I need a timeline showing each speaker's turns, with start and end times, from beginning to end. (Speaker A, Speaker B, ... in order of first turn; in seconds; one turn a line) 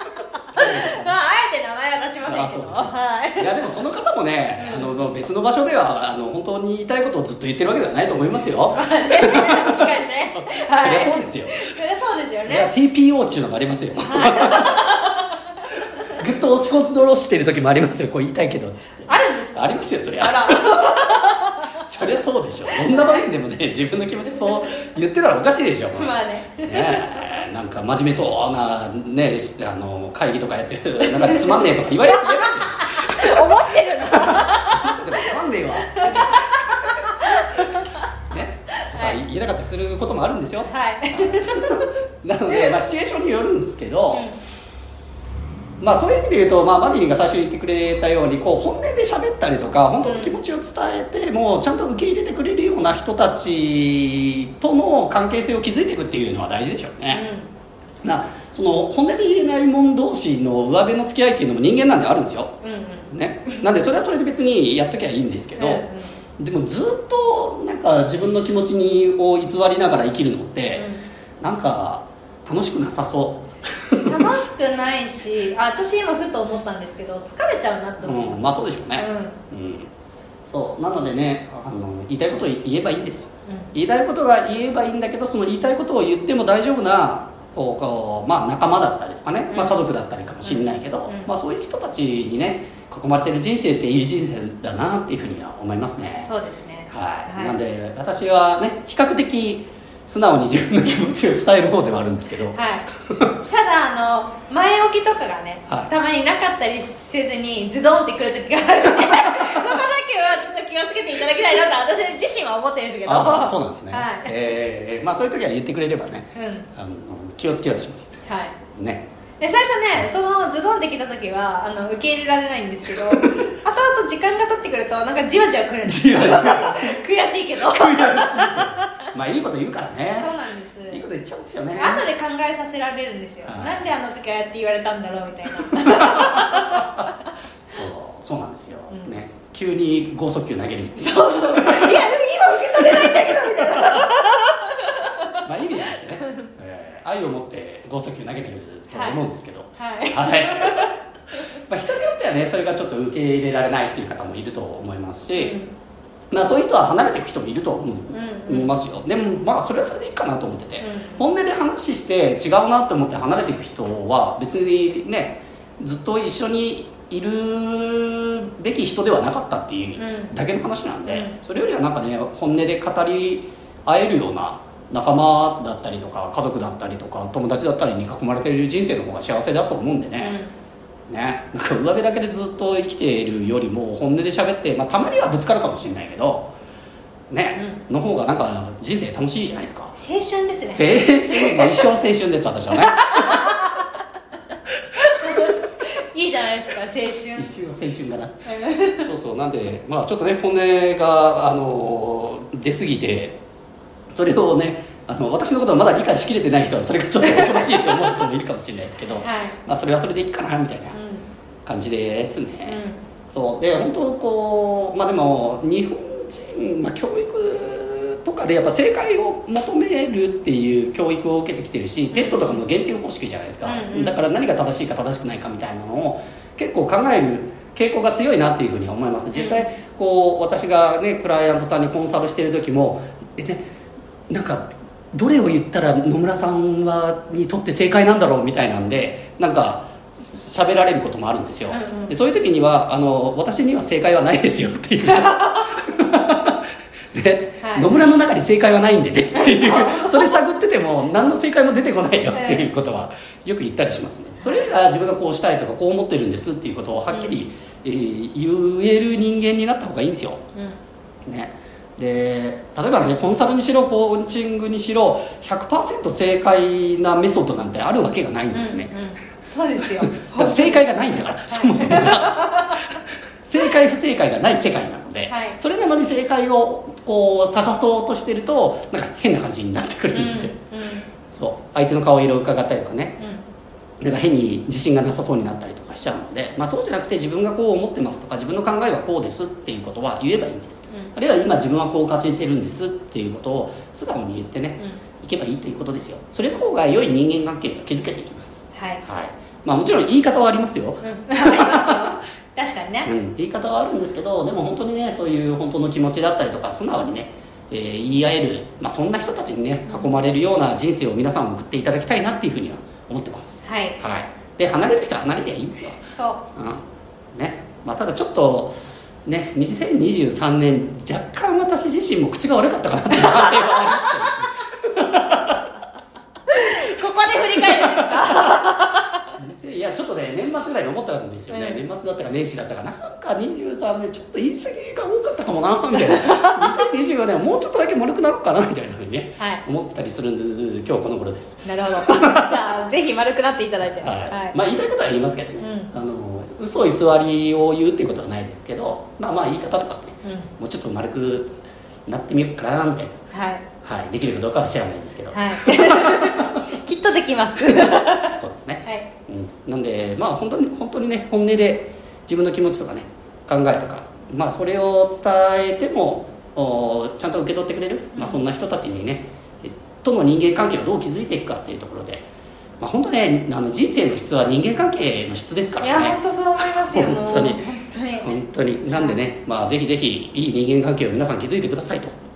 Speaker A: 0.5-3.5
Speaker B: 0.5-1.1
Speaker B: 2.2-11.7
Speaker A: 4.6-5.1
Speaker A: 8.7-12.7
Speaker B: 12.4-14.9
Speaker A: 14.0-15.2
Speaker B: 16.1-37.0
Speaker A: 19.1-19.7
Speaker A: 20.2-21.7
Speaker A: 22.7-23.2
Speaker A: 25.9-27.2
Speaker A: 31.0-38.0
Speaker B: 38.3-44.3
Speaker A: 38.8-39.2
Speaker A: 40.7-41.9
Speaker A: 44.1-44.4
Speaker B: 45.8-57.2
Speaker A: 50.0-50.4
Speaker A: 57.1-57.5
Speaker B: 58.0-62.6
Speaker A: 62.6-63.1
Speaker B: 63.1-65.8
Speaker A: 65.6-66.1
Speaker B: 66.4-70.9
Speaker A: 70.8-71.0
Speaker B: 71.4-74.2
Speaker A: 74.0-79.4
Speaker B: 78.0-79.9
Speaker B: 80.5-96.3
Speaker A: 89.5-89.8
Speaker A: 90.4-91.3
Speaker A: 96.2-97.6
Speaker B: 96.9-102.6
Speaker A: 102.5-102.9
Speaker A: 103.5-114.3
Speaker B: 109.4-109.8
Speaker B: 113.0-118.2
Speaker A: 116.3-116.7
Speaker A: 118.2-118.6
Speaker B: 118.8-119.1
Speaker A: 119.4-129.0
Speaker B: 125.8-127.0
Speaker B: 127.6-130.3
Speaker A: 130.2-131.1
Speaker B: 130.9-132.1
Speaker A: 131.8-137.2
Speaker B: 133.5-133.9
Speaker B: 135.7-137.0
Speaker B: 137.7-144.2
Speaker A: 141.0-145.4
Speaker B: 145.4-150.9
Speaker A: 145.9-146.5
Speaker A: 148.9-149.2
Speaker A: 149.8-150.9
Speaker B: 151.6-155.6
Speaker A: 155.3-155.7
Speaker B: 156.3-180.4
Speaker A: 158.1-158.7
Speaker A: 160.8-161.2
Speaker A: 170.0-170.3
Speaker A: 171.1-171.3
Speaker A: 180.2-180.5
Speaker B: 181.1-186.5
Speaker B: 187.3-189.9
Speaker A: 187.6-187.8
Speaker A: 189.9-191.9
Speaker B: 190.6-193.6
Speaker A: 192.8-193.9
Speaker A: 195.1-197.5
Speaker B: 197.3-198.4
Speaker A: 198.5-199.1
Speaker B: 199.0-203.4
Speaker B: 204.1-211.0
Speaker A: 207.2-207.9
Speaker A: 209.2-209.6
Speaker A: 210.9-211.2
Speaker B: 211.6-233.6
Speaker A: 212.7-213.0
Speaker A: 222.1-222.6
Speaker A: 223.6-224.2
Speaker A: 229.3-229.7
Speaker B: 234.3-260.4
Speaker A: 241.7-242.1
Speaker A: 245.1-245.8
Speaker A: 247.6-247.9
Speaker A: 249.3-250.4
Speaker A: 252.3-252.7
Speaker A: 254.4-254.8
Speaker A: 257.1-257.4
Speaker B: 261.2-268.9
Speaker A: 268.5-270.8
Speaker B: 269.9-280.6
Speaker A: 271.5-272.8
Speaker A: 275.3-275.6
Speaker A: 280.1-281.1
Speaker B: 281.3-283.2
Speaker B: 284.0-302.1
Speaker A: 298.7-299.0
Speaker A: 301.0-303.1
Speaker B: 303.1-316.0
Speaker A: 309.9-310.1
Speaker A: 313.6-314.0
Speaker A: 316.1-316.4
Speaker B: 316.6-316.8
Speaker B: 317.3-325.6
Speaker A: 323.2-324.1
Speaker A: 326.5-329.2
Speaker B: 328.3-328.6
Speaker B: 329.4-342.7
Speaker A: 331.5-331.8
Speaker A: 336.0-336.8
Speaker A: 339.4-339.6
Speaker A: 341.6-344.6
Speaker B: 344.0-353.1
Speaker A: 345.6-345.9
Speaker A: 350.2-350.5
Speaker A: 353.3-353.6
Speaker B: 353.8-356.6
Speaker A: 355.3-359.1
Speaker B: 357.8-372.2
Speaker A: 368.1-368.4
Speaker B: 372.8-376.2
Speaker A: 375.8-378.4
Speaker B: 376.7-377.6
Speaker B: 378.2-382.1
Speaker A: 378.9-379.2